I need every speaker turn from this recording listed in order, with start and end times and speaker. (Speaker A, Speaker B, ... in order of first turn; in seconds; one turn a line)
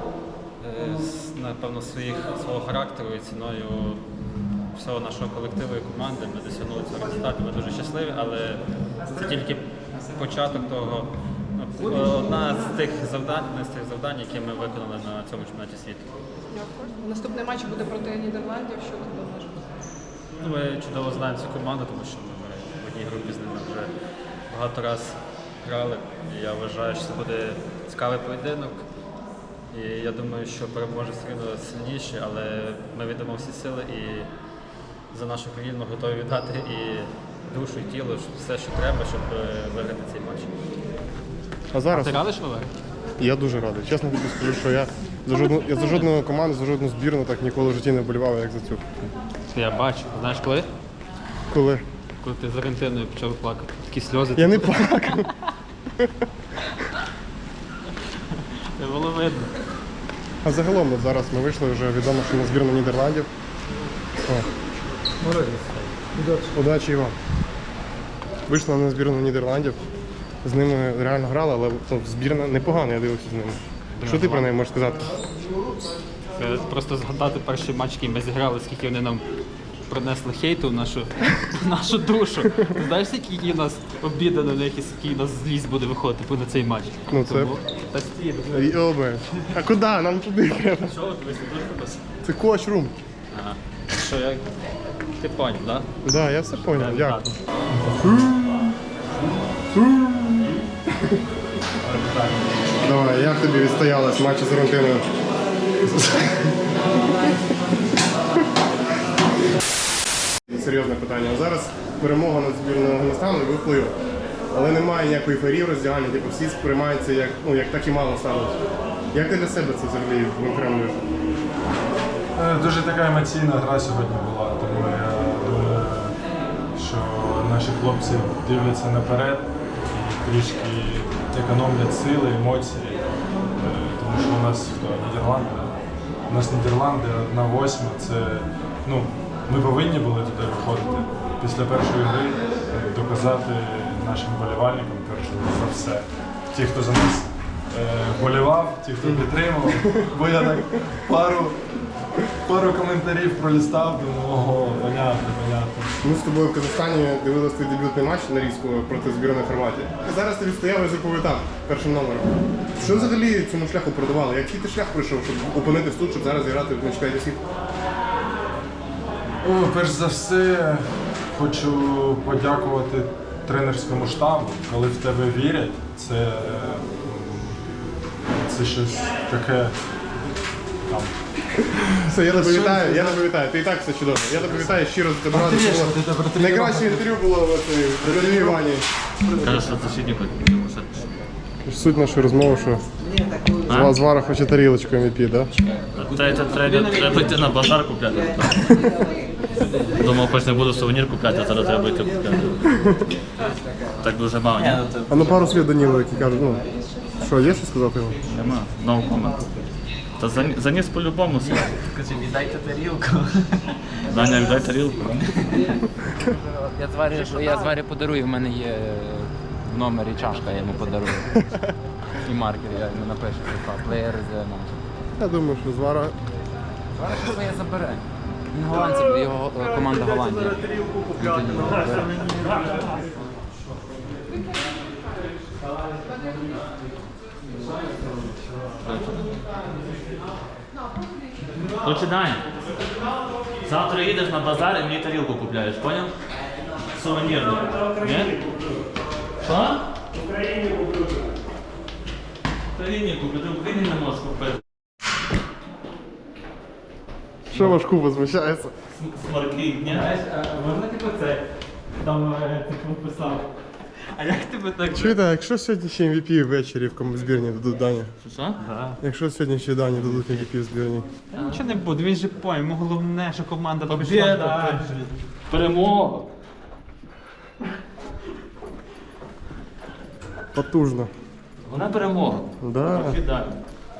Speaker A: 0.6-4.0
Speaker A: 4.7-16.1
Speaker B: 16.5-19.6
Speaker A: 20.4-23.9
Speaker A: 24.5-28.8
Speaker A: 29.7-34.3
Speaker A: 35.1-40.5
Speaker C: 41.7-42.2
Speaker A: 41.9-42.7
Speaker C: 43.2-48.8
Speaker A: 49.5-50.7
Speaker C: 51.5-51.8
Speaker A: 52.2-55.2
Speaker C: 54.4-55.3
Speaker A: 58.8-59.5
Speaker C: 60.4-63.3
Speaker C: 66.4-67.1
Speaker C: 68.5-69.8
Speaker C: 70.4-75.1
Speaker A: 74.0-74.5
Speaker A: 76.4-79.2
Speaker A: 79.9-88.8
Speaker C: 87.1-87.5
Speaker C: 88.5-90.9
Speaker A: 90.8-92.0
Speaker C: 92.2-92.9
Speaker A: 93.3-94.4
Speaker A: 95.2-95.9
Speaker C: 96.0-97.2
Speaker A: 96.6-97.4
Speaker C: 98.0-98.7
Speaker C: 99.7-100.5
Speaker C: 102.8-105.0
Speaker C: 110.5-114.0
Speaker C: 114.5-118.6
Speaker C: 119.1-121.0
Speaker D: 122.3-126.2
Speaker D: 126.7-133.0
Speaker D: 133.6-135.7
Speaker D: 136.3-151.6
Speaker C: 149.0-150.8
Speaker D: 152.4-155.9
Speaker C: 156.0-167.4
Speaker D: 162.8-163.2
Speaker D: 169.4-177.6
Speaker D: 178.4-179.7
Speaker C: 182.1-188.9
Speaker D: 182.3-183.0
Speaker E: 189.4-191.1
Speaker C: 191.7-192.8
Speaker E: 193.7-193.9
Speaker C: 193.7-195.5
Speaker E: 196.0-198.9
Speaker E: 199.8-202.6
Speaker C: 202.8-203.1
Speaker E: 204.0-204.8
Speaker F: 204.6-205.3
Speaker C: 205.1-206.6
Speaker C: 207.1-208.2
Speaker E: 208.3-209.5
Speaker E: 210.2-211.9
Speaker F: 211.6-213.3
Speaker E: 214.1-215.7
Speaker F: 216.5-221.3
Speaker F: 222.2-224.7
Speaker C: 225.2-226.2
Speaker F: 226.9-232.3
Speaker E: 238.8-239.4
Speaker E: 241.7-242.4
Speaker E: 243.6-246.1
Speaker E: 246.9-248.4
Speaker E: 249.4-249.8
Speaker E: 252.7-254.6
Speaker C: 257.5-258.7
Speaker E: 258.9-260.1
Speaker A: 259.9-261.4
Speaker A: 262.0-263.4
Speaker A: 264.1-265.2
Speaker C: 264.9-268.1
Speaker E: 268.2-268.6
Speaker A: 268.6-269.0
Speaker C: 269.0-271.1
Speaker A: 270.1-270.4
Speaker A: 271.3-275.0
Speaker E: 273.9-274.9
Speaker E: 275.5-276.3
Speaker C: 280.5-281.1
Speaker E: 281.7-283.6
Speaker C: 282.6-283.2